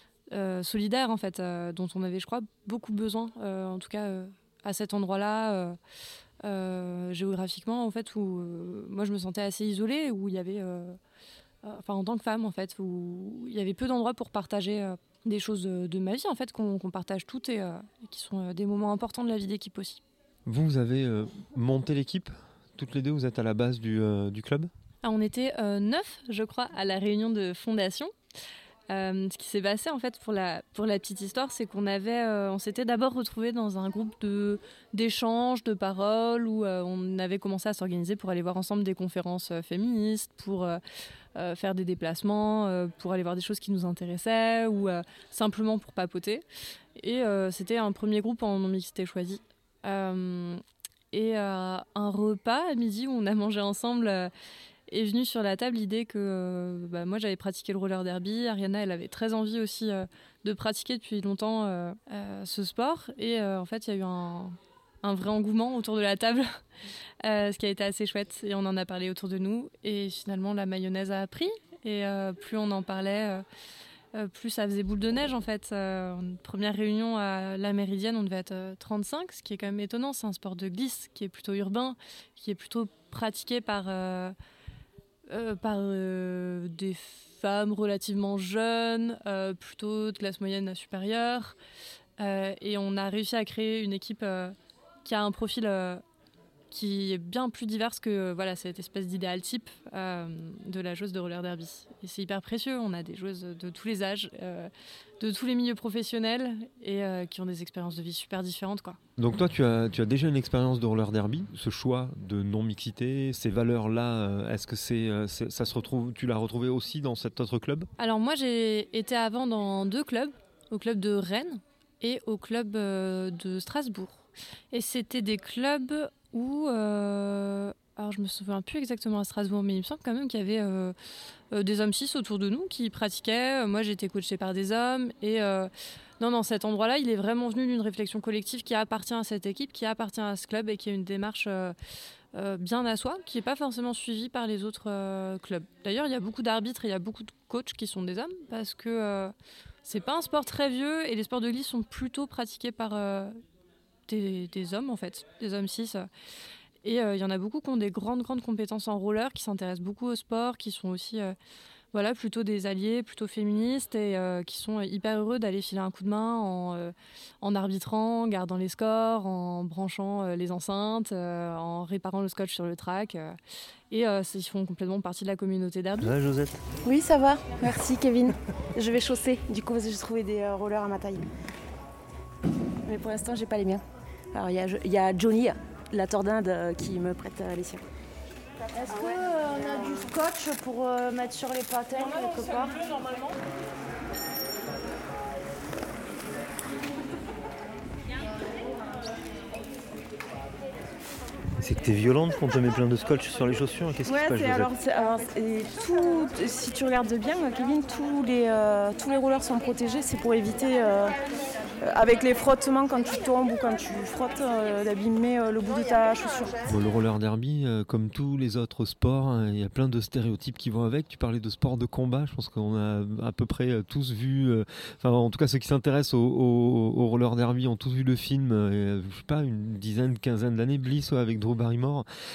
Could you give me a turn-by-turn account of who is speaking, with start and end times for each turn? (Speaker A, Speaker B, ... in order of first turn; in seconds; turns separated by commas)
Speaker A: 0.3-5.8, Speaker A: 6.4-11.0, Speaker A: 11.6-20.0, Speaker B: 20.4-24.7, Speaker A: 25.0-28.1, Speaker A: 28.9-40.8, Speaker A: 41.3-46.4, Speaker A: 47.0-54.3, Speaker A: 54.9-66.6, Speaker A: 67.2-73.4, Speaker A: 74.1-84.3, Speaker A: 85.3-91.5, Speaker A: 92.2-96.0, Speaker A: 96.7-109.0, Speaker B: 109.2-117.9, Speaker A: 118.0-130.9, Speaker A: 131.5-141.8, Speaker A: 142.3-153.4, Speaker A: 154.1-156.1, Speaker A: 156.8-161.3, Speaker A: 161.9-173.4, Speaker A: 173.9-176.1, Speaker C: 176.0-176.6, Speaker D: 176.8-181.2, Speaker D: 182.8-183.8, Speaker D: 184.3-187.8, Speaker D: 188.7-192.8, Speaker C: 201.6-204.7, Speaker D: 204.0-211.2, Speaker D: 211.8-216.6, Speaker B: 216.6-232.1